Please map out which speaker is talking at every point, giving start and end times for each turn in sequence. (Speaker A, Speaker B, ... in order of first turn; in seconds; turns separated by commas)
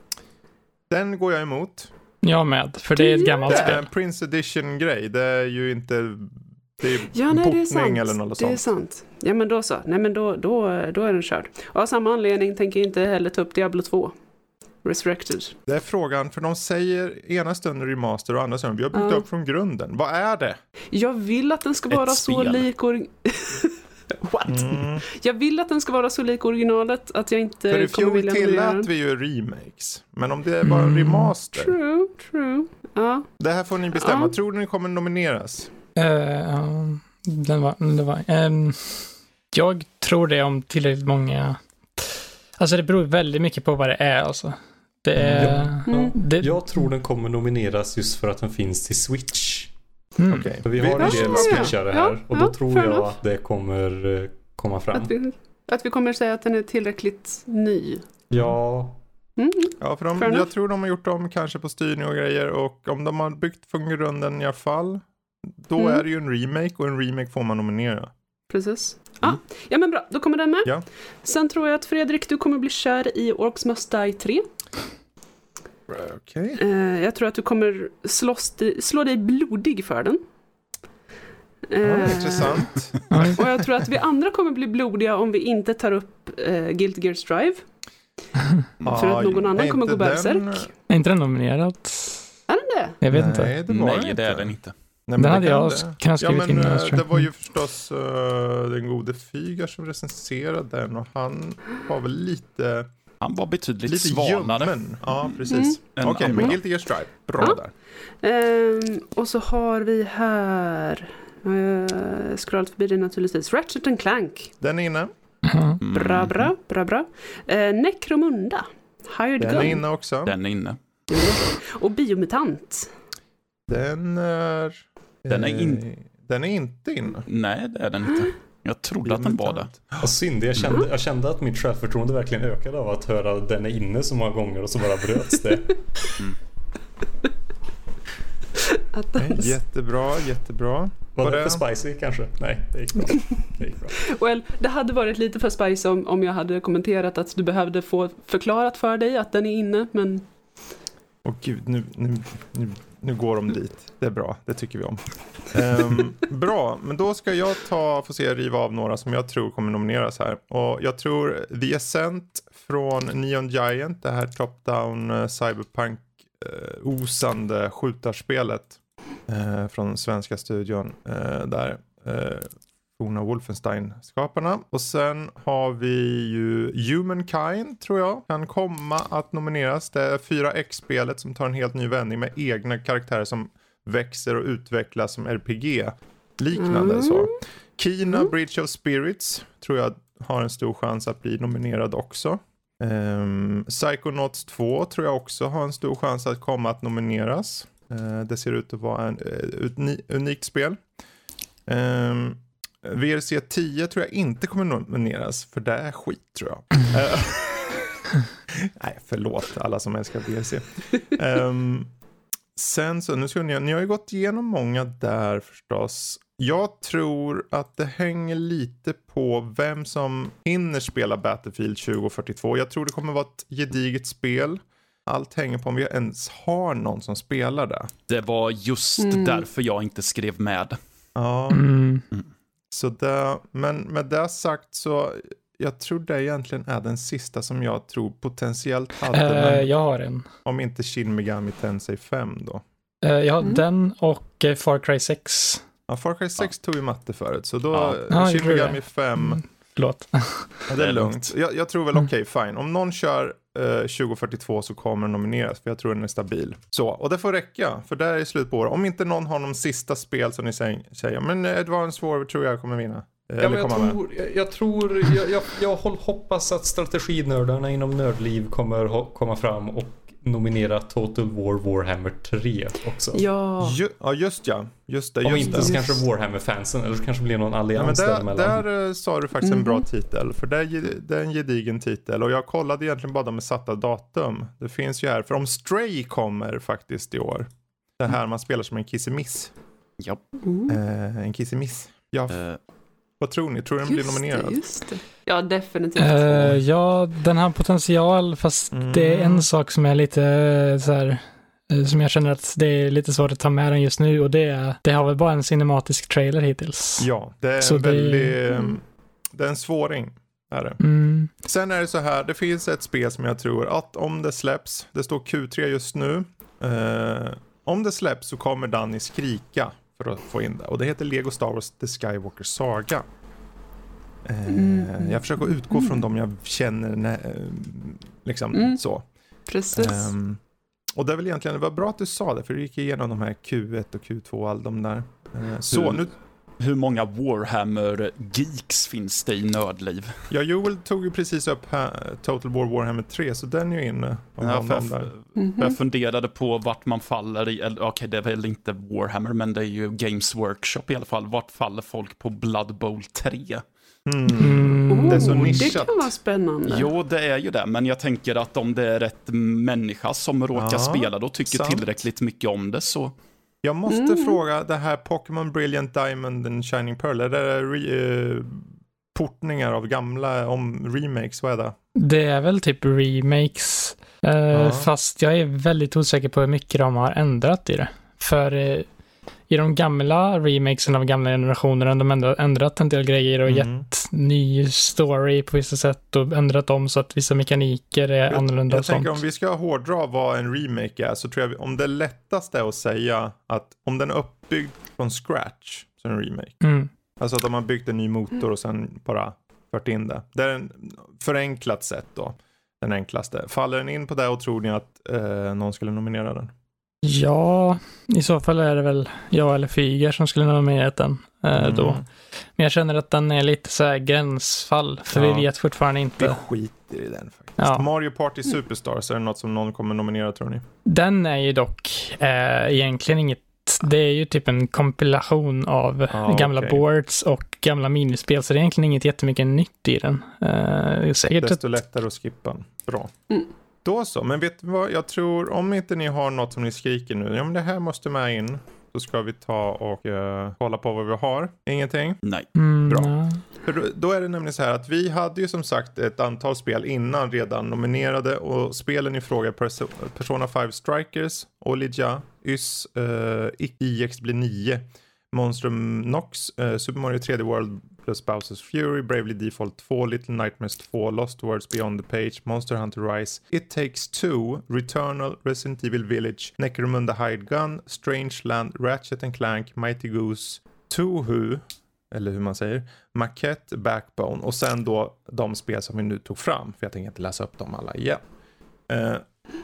Speaker A: 0.9-1.9, Speaker B: 2.2-3.9, Speaker C: 3.0-3.7, Speaker A: 3.5-8.6, Speaker C: 7.1-14.1, Speaker C: 14.8-15.5, Speaker A: 15.7-20.6, Speaker C: 18.9-19.2, Speaker C: 20.9-28.9, Speaker D: 21.9-22.6, Speaker A: 24.5-25.0, Speaker A: 27.7-31.8, Speaker B: 30.6-31.3, Speaker C: 31.5-33.3, Speaker A: 33.4-35.7, Speaker C: 33.9-34.3, Speaker B: 36.0-46.9, Speaker A: 45.2-45.6, Speaker E: 45.2-49.7, Speaker C: 45.9-46.1, Speaker B: 50.2-50.5, Speaker A: 50.3-51.8, Speaker E: 50.6-55.1, Speaker C: 51.0-53.1, Speaker C: 54.9-58.0, Speaker E: 58.3-59.0, Speaker C: 59.4-60.5, Speaker A: 59.8-65.0, Speaker A: 65.6-68.1, Speaker C: 65.8-66.0, Speaker C: 68.5-74.5, Speaker A: 75.9-76.6, Speaker C: 76.6-80.2, Speaker C: 81.7-87.6, Speaker A: 81.8-83.4, Speaker B: 83.1-83.4, Speaker A: 88.8-90.7, Speaker C: 88.9-90.7, Speaker B: 90.9-92.3, Speaker C: 92.5-93.0, Speaker B: 93.0-93.5, Speaker A: 93.1-102.9, Speaker D: 93.7-94.7, Speaker B: 95.2-97.2, Speaker D: 103.2-105.4, Speaker A: 103.8-107.7, Speaker C: 105.5-106.5, Speaker D: 105.9-106.6, Speaker C: 108.2-114.5, Speaker A: 114.6-115.1, Speaker B: 115.5-115.8, Speaker D: 115.8-116.5, Speaker C: 115.9-119.8, Speaker A: 119.4-120.3, Speaker D: 120.2-121.3, Speaker C: 121.1-122.9, Speaker A: 123.7-127.3, Speaker D: 125.3-125.8, Speaker D: 127.3-129.8, Speaker A: 129.0-130.1, Speaker E: 130.0-135.8, Speaker C: 138.7-139.5, Speaker A: 139.2-141.6, Speaker E: 141.1-143.9, Speaker C: 144.0-150.3, Speaker A: 151.2-200.8, Speaker C: 186.6-187.3, Speaker A: 201.7-208.0, Speaker A: 208.5-211.9, Speaker A: 212.6-227.9, Speaker D: 228.1-230.8, Speaker C: 229.0-229.4, Speaker A: 231.2-231.7, Speaker B: 231.5-232.1, Speaker A: 232.7-239.7, Speaker B: 239.1-240.3, Speaker A: 240.4-242.6, Speaker B: 243.0-245.6, Speaker A: 245.9-249.4, Speaker D: 247.7-248.0, Speaker B: 248.1-250.6, Speaker A: 250.7-264.0, Speaker D: 250.8-251.3, Speaker E: 263.4-273.2, Speaker C: 273.1-273.8, Speaker A: 273.6-275.7, Speaker E: 275.2-278.6, Speaker C: 275.4-276.0, Speaker A: 277.7-289.5, Speaker C: 279.4-279.8, Speaker C: 290.4-290.8, Speaker A: 290.7-292.4, Speaker D: 292.3-292.6, Speaker A: 293.2-294.6, Speaker C: 293.8-296.6, Speaker B: 296.0-307.1, Speaker A: 298.7-299.5, Speaker A: 307.0-323.0, Speaker B: 307.6-308.4, Speaker B: 310.8-311.3, Speaker A: 324.2-329.1, Speaker C: 324.5-326.0, Speaker C: 328.5-328.8, Speaker C: 329.5-330.1, Speaker A: 329.7-330.4, Speaker A: 330.9-336.1, Speaker D: 335.7-336.0, Speaker D: 336.6-340.3, Speaker A: 340.3-345.1, Speaker D: 344.4-353.6, Speaker C: 345.4-345.8, Speaker A: 354.1-356.1, Speaker B: 354.4-355.7, Speaker C: 354.9-356.9, Speaker D: 356.6-363.1, Speaker A: 360.5-361.8, Speaker A: 363.6-371.7, Speaker C: 363.9-364.4, Speaker B: 371.9-378.9, Speaker A: 374.5-374.9, Speaker B: 379.5-389.2, Speaker A: 383.4-383.9, Speaker A: 388.3-396.6, Speaker B: 396.6-396.9, Speaker A: 397.2-406.5, Speaker B: 407.0-412.0, Speaker A: 411.6-412.0, Speaker B: 412.6-416.4, Speaker A: 415.1-415.5, Speaker A: 416.2-420.6, Speaker B: 417.6-417.8, Speaker B: 420.9-431.6, Speaker A: 426.1-426.8, Speaker A: 431.2-433.1, Speaker A: 433.8-442.2, Speaker B: 442.5-443.4, Speaker A: 442.9-478.2, Speaker A: 478.9-479.2